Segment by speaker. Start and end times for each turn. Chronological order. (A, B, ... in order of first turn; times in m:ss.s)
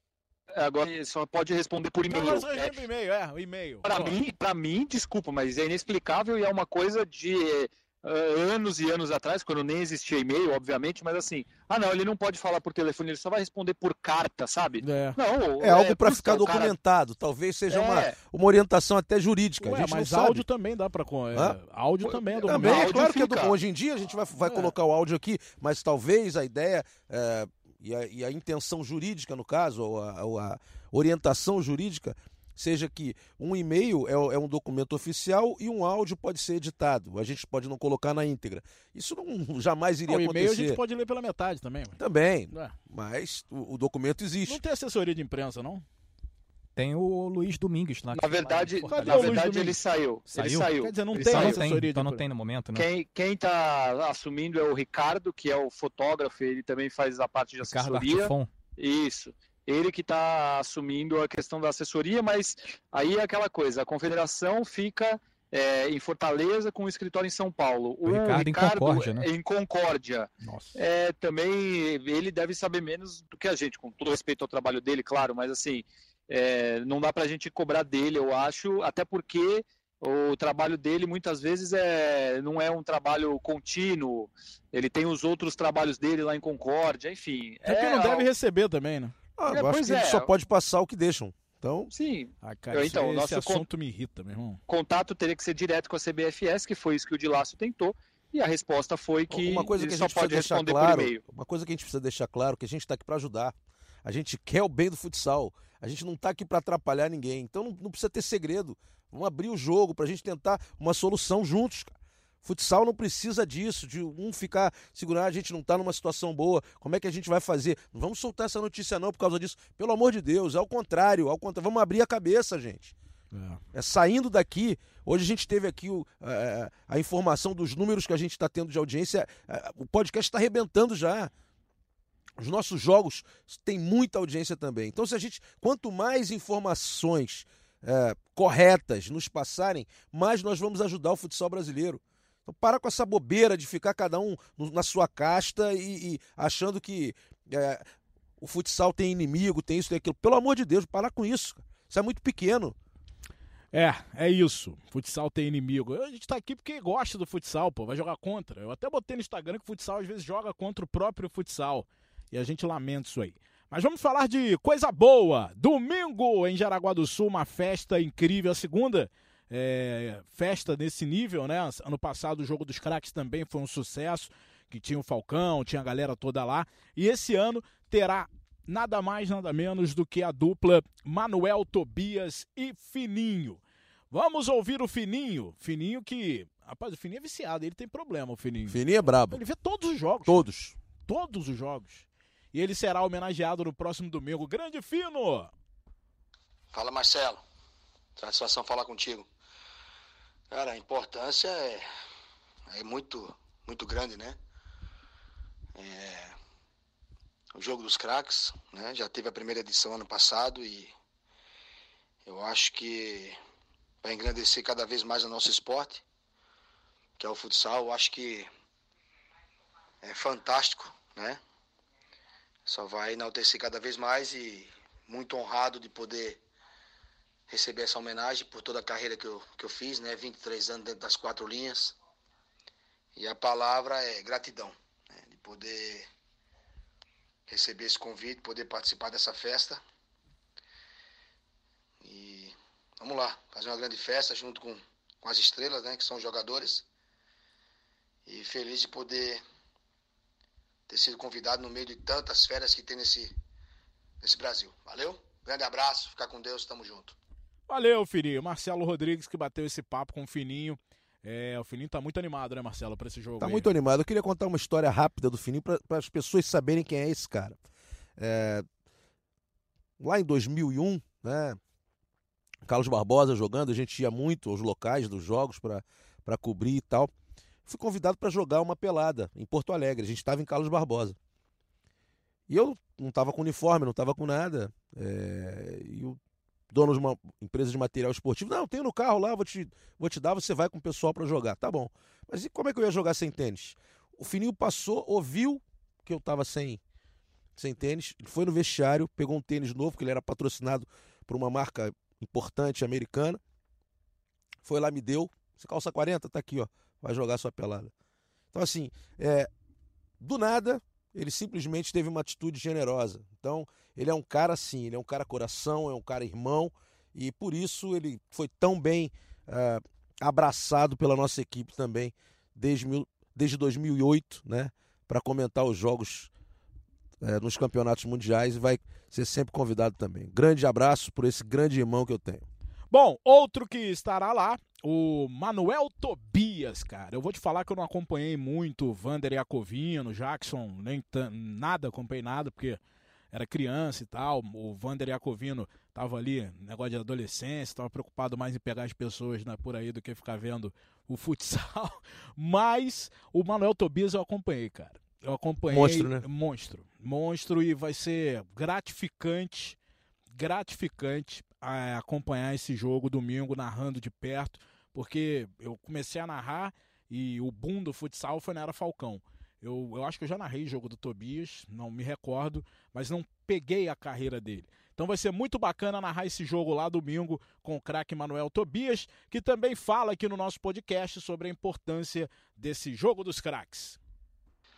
0:00.5-0:02.8 A
0:02.0-0:04.2 B
0:03.8-0:16.7 A
0:14.8-0:15.2 B
0:15.6-0:20.4 C
0:17.7-0:18.1 A
0:19.6-0:22.9 B
0:21.3-0:40.8 C
0:22.6-0:23.5 A
0:24.4-0:24.7 B
0:40.1-0:42.0 B
0:42.0-0:44.6 C
0:44.5-0:45.8 B
0:46.8-0:49.4 D
0:48.1-0:51.6 A
0:48.8-0:49.8 B
0:50.3-0:52.9 D
0:50.7-0:52.2 B
0:52.7-1:28.3 A
0:57.6-0:58.5 D
1:08.0-1:09.2 D
1:10.4-1:10.8 B
1:27.6-1:29.1 B
1:29.4-1:31.9 C
1:29.5-1:30.3 A
1:31.9-1:33.6 A
1:32.4-1:34.6 B
1:34.7-1:41.2 A
1:39.3-1:51.9 C
1:52.4-2:02.9 C
2:03.3-2:03.6 B
2:03.7-2:11.3 C
2:12.4-2:27.8 C
2:28.4-2:32.8 C
2:33.7-3:08.8 B
3:08.7-3:09.4 C
3:09.3-3:10.4 B
3:10.2-3:10.7 C
3:11.1-3:15.5 B
3:16.7-3:17.4 E
3:18.2-3:19.3 E
3:20.5-3:21.8 E
3:22.7-3:24.4 E
3:25.8-3:26.3 E
3:27.6-3:30.9 E
3:32.3-3:33.4 E
3:34.0-3:36.0 E
3:37.2-3:38.5 E
3:40.0-3:41.4 E
3:42.7-3:46.4 E
3:47.5-3:51.9 E
3:53.2-3:54.7 E
3:55.2-3:56.0 E
3:57.5-3:59.8 E
4:02.0-4:06.8 E
4:08.3-4:09.4 E
4:10.9-4:13.3 E
4:14.2-4:17.1 E
4:17.7-4:23.7 B
4:23.4-4:27.6 C
4:28.2-4:28.6 C
4:30.0-4:31.6 C
4:32.6-4:37.1 C
4:37.6-4:41.2 C
4:42.5-4:46.2 C
4:46.7-4:56.8 C
4:57.6-5:03.4 C
5:04.6-5:07.9 C
5:08.5-5:09.5 C
5:10.2-5:26.3 C
5:27.2-5:32.5 C
5:32.9-5:42.8 B
5:43.3-5:59.8 B
5:55.7-5:56.2 C
6:00.3-6:24.0 B